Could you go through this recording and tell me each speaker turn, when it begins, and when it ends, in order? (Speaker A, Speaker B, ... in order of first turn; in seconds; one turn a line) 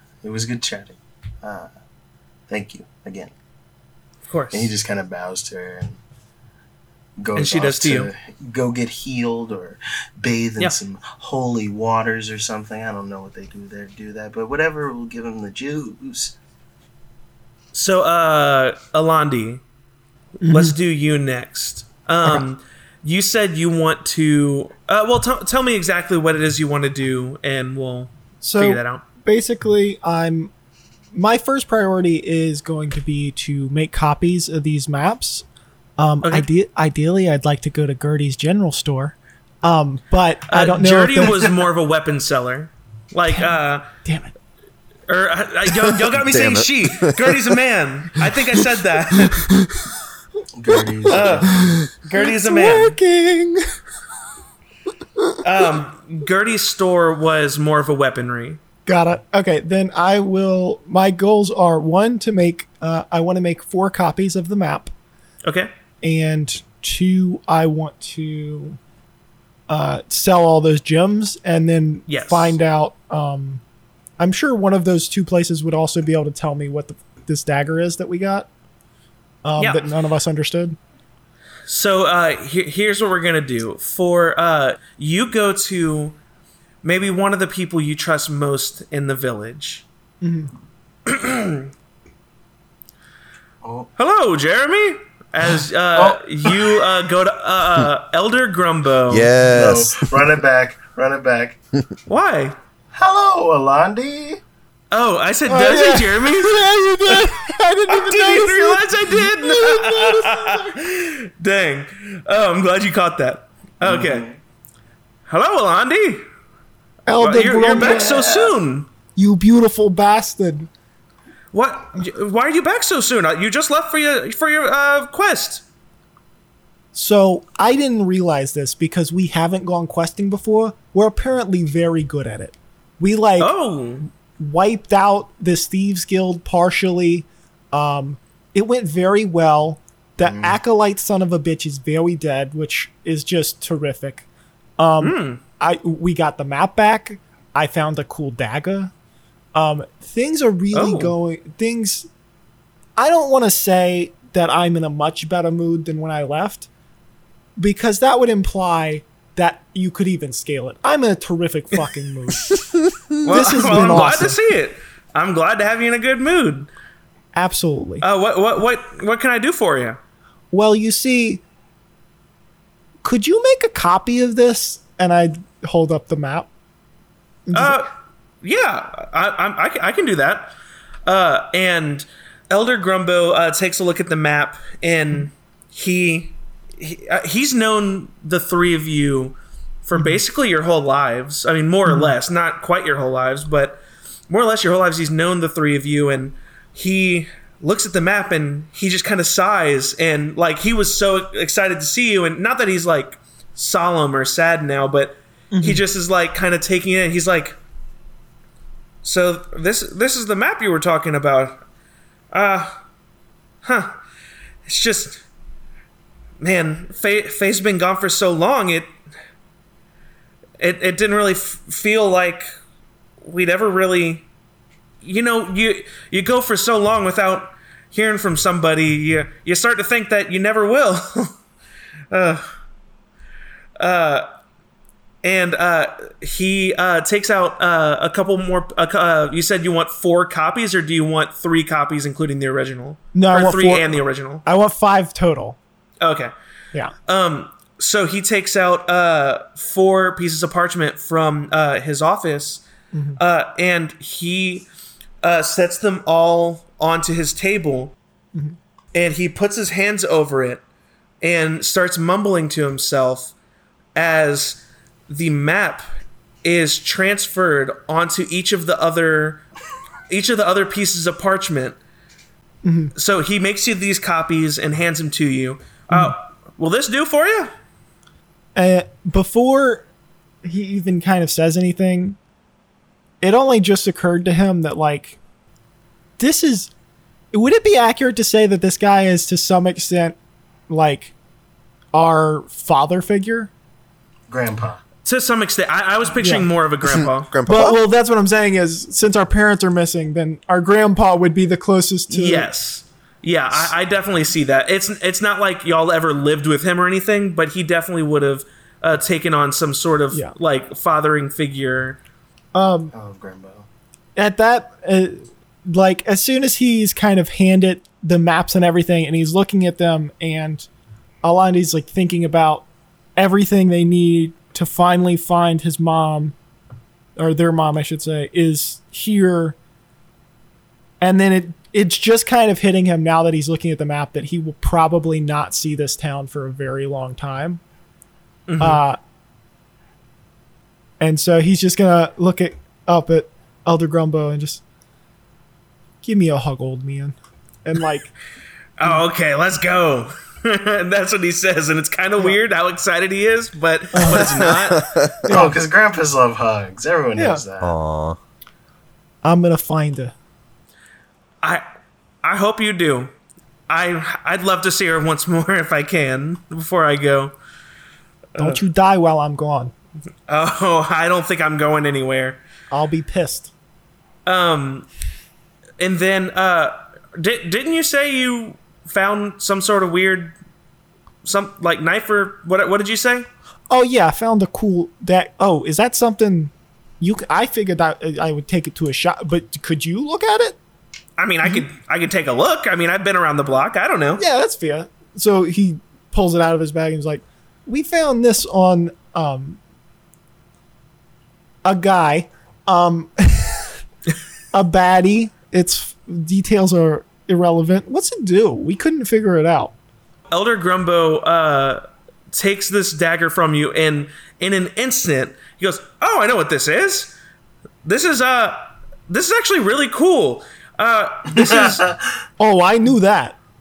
Speaker A: 0.2-1.7
Speaker A: 2.5-3.3
Speaker B: 4.3-4.7
Speaker A: 4.5-6.0
Speaker A: 7.2-16.4
Speaker B: 7.3-8.1
Speaker B: 17.7-19.6
Speaker C: 20.4-20.7
Speaker B: 20.4-29.0
Speaker C: 28.4-30.5
Speaker C: 31.1-35.4
Speaker C: 36.0-41.4
Speaker B: 36.2-36.5
Speaker B: 40.5-43.9
Speaker C: 43.3-44.3
Speaker B: 45.1-49.5
Speaker D: 46.1-47.3
Speaker C: 49.3-49.8
Speaker A: 50.5-51.8
Speaker B: 51.1-53.0
Speaker C: 51.1-53.6
Speaker B: 55.4-58.6
Speaker C: 58.9-64.9
Speaker B: 65.4-65.7
Speaker C: 66.0-68.8
Speaker C: 69.7-73.6
Speaker B: 72.1-72.5
Speaker C: 74.2-78.5
Speaker C: 79.4-80.8
Speaker B: 79.5-79.9
Speaker B: 81.7-86.2
Speaker B: 86.8-89.8
Speaker C: 90.2-90.5
Speaker B: 91.0-91.7
Speaker A: 93.6-93.9
Speaker B: 94.0-99.3
Speaker A: 96.0-96.8
Speaker D: 99.1-100.1
Speaker A: 99.5-101.6
Speaker B: 102.1-102.5
Speaker A: 102.9-104.4
Speaker B: 104.9-107.3
Speaker C: 105.5-110.8
Speaker B: 107.9-114.3
Speaker A: 113.8-114.3
Speaker B: 115.3-116.2
Speaker C: 117.0-118.2
Speaker B: 117.2-118.9
Speaker A: 117.7-118.5
Speaker C: 119.2-120.7
Speaker B: 121.5-125.6
Speaker C: 126.9-133.5
Speaker B: 133.4-134.1
Speaker C: 134.3-144.2
Speaker A: 140.2-140.6
Speaker C: 144.8-148.9
Speaker B: 145.0-145.4
Speaker C: 149.5-152.1
Speaker B: 150.7-151.1
Speaker C: 153.0-156.7
Speaker C: 157.6-162.6
Speaker C: 163.2-164.4
Speaker B: 163.2-166.7
Speaker C: 167.3-168.0
Speaker B: 168.0-170.0
Speaker C: 170.5-171.4
Speaker C: 173.0-176.5
Speaker C: 177.5-177.8
Speaker B: 177.5-177.9
Speaker B: 178.4-180.5
Speaker B: 181.1-207.6
Speaker C: 191.9-192.1
Speaker C: 205.5-205.8
Speaker B: 209.0-211.6
Speaker B: 212.3-212.8
Speaker B: 213.6-214.0
Speaker B: 214.7-215.2
Speaker B: 216.4-218.9
Speaker B: 220.6-222.5
Speaker B: 223.2-224.2
Speaker B: 225.0-231.4
Speaker B: 232.1-232.5
Speaker B: 233.8-234.3
Speaker B: 235.2-244.4
Speaker C: 243.1-245.6
Speaker B: 246.0-246.3
Speaker B: 247.1-252.6
Speaker C: 252.9-253.2
Speaker B: 253.2-254.7
Speaker B: 255.2-257.9
Speaker B: 258.9-260.6
Speaker B: 261.2-263.3
Speaker B: 263.9-265.9
Speaker B: 266.4-269.4
Speaker B: 270.1-271.8
Speaker C: 272.6-272.9
Speaker B: 272.9-277.5
Speaker C: 278.5-279.9
Speaker C: 280.4-282.2
Speaker C: 283.2-285.2
Speaker C: 286.2-286.7
Speaker C: 287.3-290.1
Speaker C: 290.7-291.1
Speaker C: 291.9-293.5
Speaker A: 294.3-294.8
Speaker B: 295.0-297.3
Speaker C: 296.2-296.5
Speaker D: 296.9-297.8
Speaker C: 297.4-302.5
Speaker B: 302.1-312.0
Speaker C: 312.5-312.9
Speaker A: 312.9-313.7
Speaker C: 314.1-320.7
Speaker C: 321.2-326.4
Speaker C: 327.2-329.6
Speaker C: 331.0-337.6
Speaker B: 338.5-338.8
Speaker C: 338.6-339.0
Speaker C: 341.0-344.6
Speaker C: 346.0-348.1
Speaker B: 348.8-354.9
Speaker C: 353.9-354.4
Speaker D: 354.2-355.4
Speaker C: 355.3-355.6
Speaker A: 355.3-357.7
Speaker C: 357.2-357.4
Speaker D: 357.6-358.2
Speaker C: 359.2-360.1
Speaker B: 362.2-363.1
Speaker B: 363.7-367.3
Speaker B: 368.3-368.6
Speaker C: 368.4-369.7
Speaker B: 370.3-372.4
Speaker C: 372.7-373.5
Speaker B: 374.2-374.9
Speaker B: 375.8-380.4
Speaker B: 381.2-383.3
Speaker C: 383.7-390.6
Speaker B: 391.2-394.2
Speaker C: 394.2-399.6
Speaker C: 401.6-403.8
Speaker C: 404.5-409.7
Speaker B: 410.3-417.1
Speaker B: 417.8-421.9
Speaker A: 421.3-422.1
Speaker C: 422.4-423.4